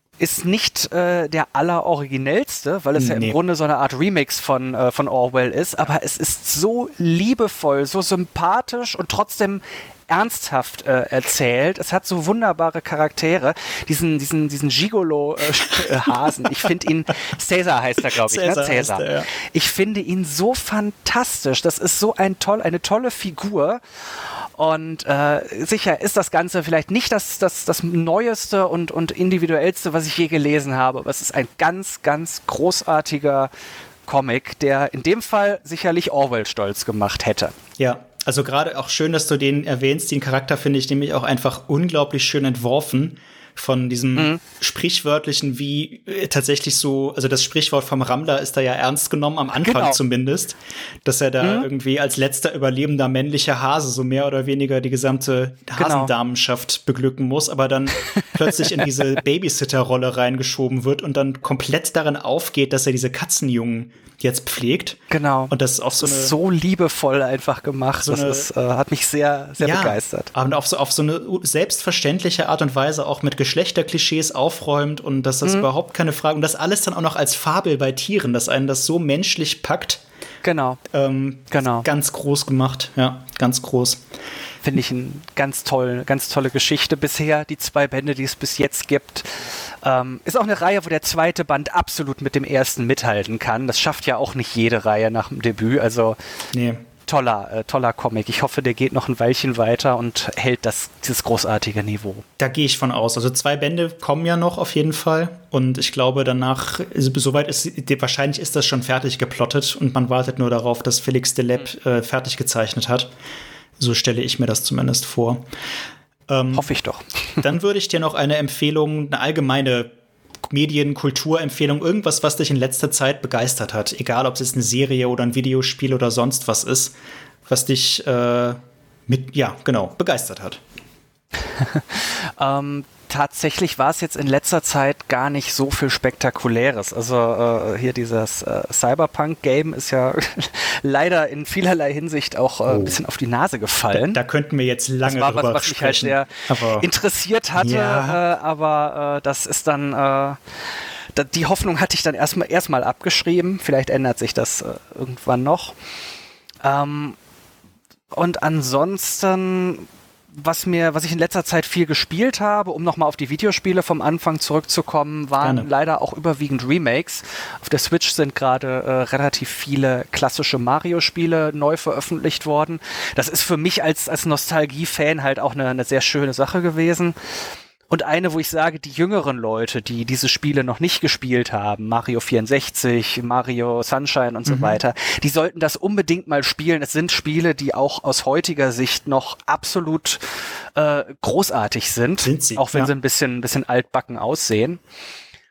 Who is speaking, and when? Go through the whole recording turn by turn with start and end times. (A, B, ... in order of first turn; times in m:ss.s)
0:00.2-0:33.5 A
0:03.0-0:03.4 B
0:18.1-0:19.3 B
0:34.1-0:37.5 A
0:37.8-1:06.3 B
0:49.6-0:50.0 A
0:51.4-0:51.7 A
0:55.8-0:56.1 A
0:58.0-0:59.0 A
1:05.1-1:10.3 A
1:08.0-1:08.5 B
1:09.6-1:20.0 B
1:20.4-1:20.8 A
1:20.9-1:24.0 B
1:21.5-1:21.8 A
1:24.6-1:36.2 A
1:36.5-1:36.8 B
1:37.0-1:42.2 A
1:42.4-1:53.1 B
1:53.8-1:55.4 B
1:56.3-1:56.7 B
1:56.5-1:57.4 A
1:57.4-1:59.9 B
2:00.5-2:06.9 B
2:07.5-2:10.6 B
2:11.4-2:24.2 A
2:22.7-2:23.0 B
2:23.9-2:26.8 B
2:25.0-2:30.4 A
2:27.6-2:28.2 B
2:31.1-2:35.7 A
2:36.6-2:37.2 A
2:38.1-2:57.1 A
2:45.4-2:45.7 B
2:57.9-3:14.8 A
3:04.4-3:04.8 B
3:12.2-3:12.9 B